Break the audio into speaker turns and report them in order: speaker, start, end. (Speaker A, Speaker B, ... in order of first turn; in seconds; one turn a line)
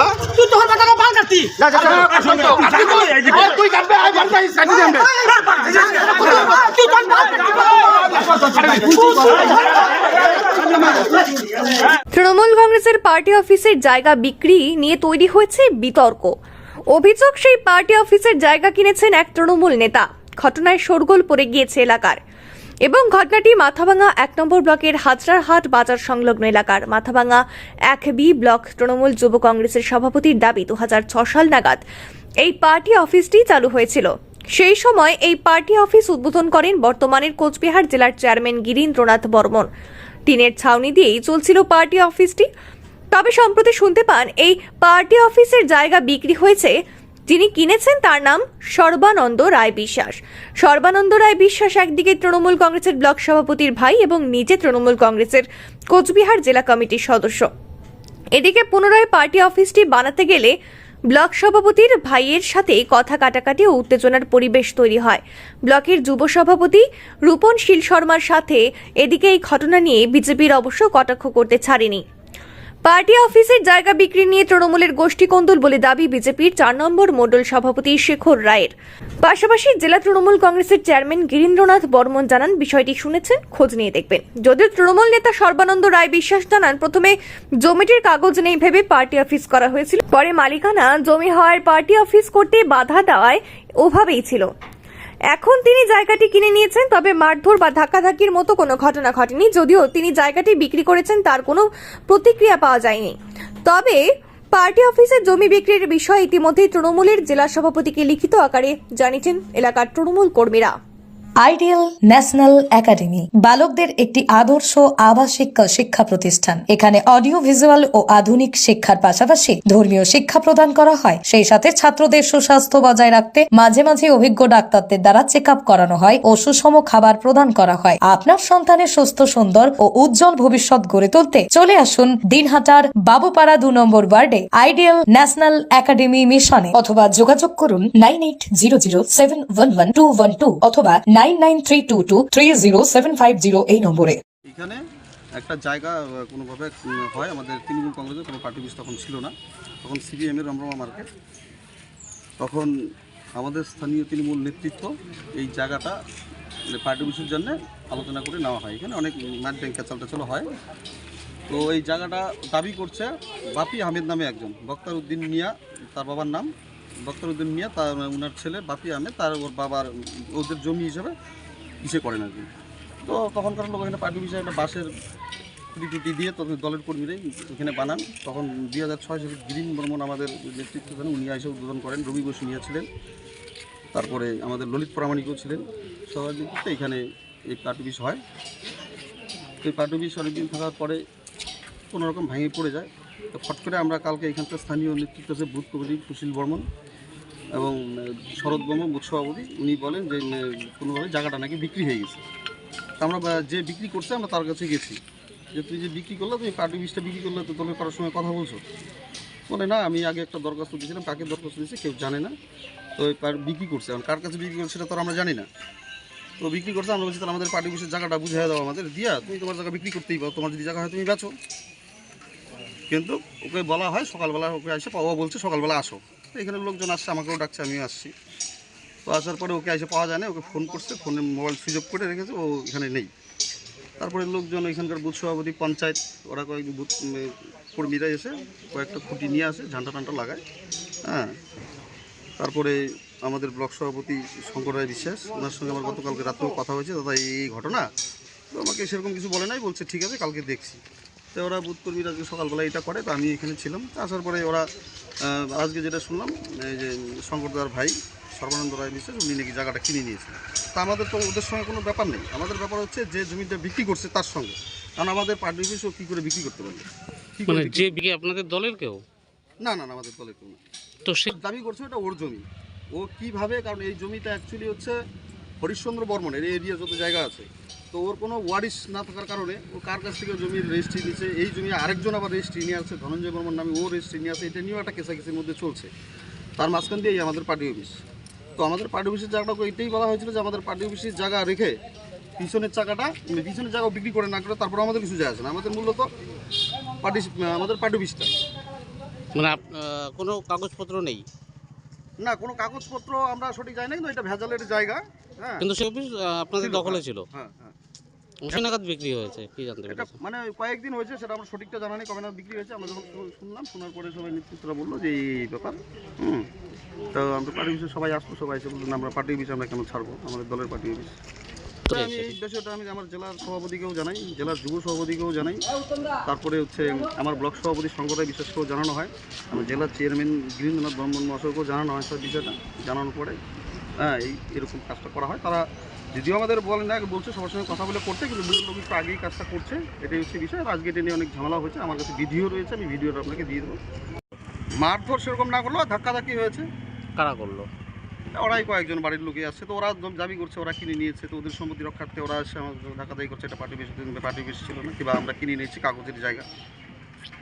Speaker A: 0.2-2.8
Speaker B: 1.6-5.1
Speaker A: 5.8-9.6
Speaker B: 6.1-6.7
Speaker B: 8.6-9.5
Speaker C: 12.1-16.4
Speaker C: 16.9-22.2
Speaker C: 22.9-31.8
Speaker C: 32.4-39.7
Speaker C: 40.3-42.5
Speaker C: 43.1-46.7
Speaker C: 47.3-57.5
Speaker C: 58.4-60.5
Speaker C: 61.1-72.0
Speaker C: 72.9-94.5
Speaker C: 95.3-104.0
Speaker C: 104.5-110.8
Speaker D: 111.4-144.2
Speaker B: 144.4-144.8
Speaker B: 145.3-151.1
Speaker B: 152.4-152.7
Speaker B: 153.3-156.0
Speaker B: 156.7-160.5
Speaker B: 161.5-171.1
Speaker B: 171.8-172.5
Speaker B: 173.0-174.9
Speaker B: 175.7-182.9
Speaker B: 183.9-188.2
Speaker B: 189.6-191.0
Speaker B: 191.9-196.7
Speaker B: 197.5-202.2
Speaker B: 203.0-205.0
Speaker B: 205.5-208.6
Speaker B: 209.5-212.3
Speaker B: 213.0-215.5
Speaker B: 216.4-221.3
Speaker B: 222.9-228.1
Speaker B: 229.1-233.1
Speaker B: 234.0-240.4
Speaker B: 241.1-241.4
Speaker B: 242.4-247.9
Speaker B: 248.5-250.8
Speaker B: 251.3-254.7
Speaker B: 255.2-268.0
Speaker E: 267.5-269.0
Speaker B: 269.6-270.6
Speaker E: 271.1-271.4
Speaker B: 271.3-275.0
Speaker B: 275.6-285.9
Speaker B: 286.6-288.0
Speaker B: 288.6-291.8
Speaker B: 292.4-296.1
Speaker B: 297.0-298.3
Speaker E: 299.4-301.2
Speaker B: 302.2-305.7
Speaker E: 305.6-307.2
Speaker B: 306.6-307.8
Speaker E: 308.4-310.1
Speaker B: 309.9-316.5
Speaker B: 317.1-321.2
Speaker E: 321.9-322.4
Speaker B: 321.9-325.6
Speaker B: 326.2-333.4
Speaker B: 334.0-343.8
Speaker B: 344.8-346.7
Speaker E: 347.2-347.7
Speaker B: 348.3-356.5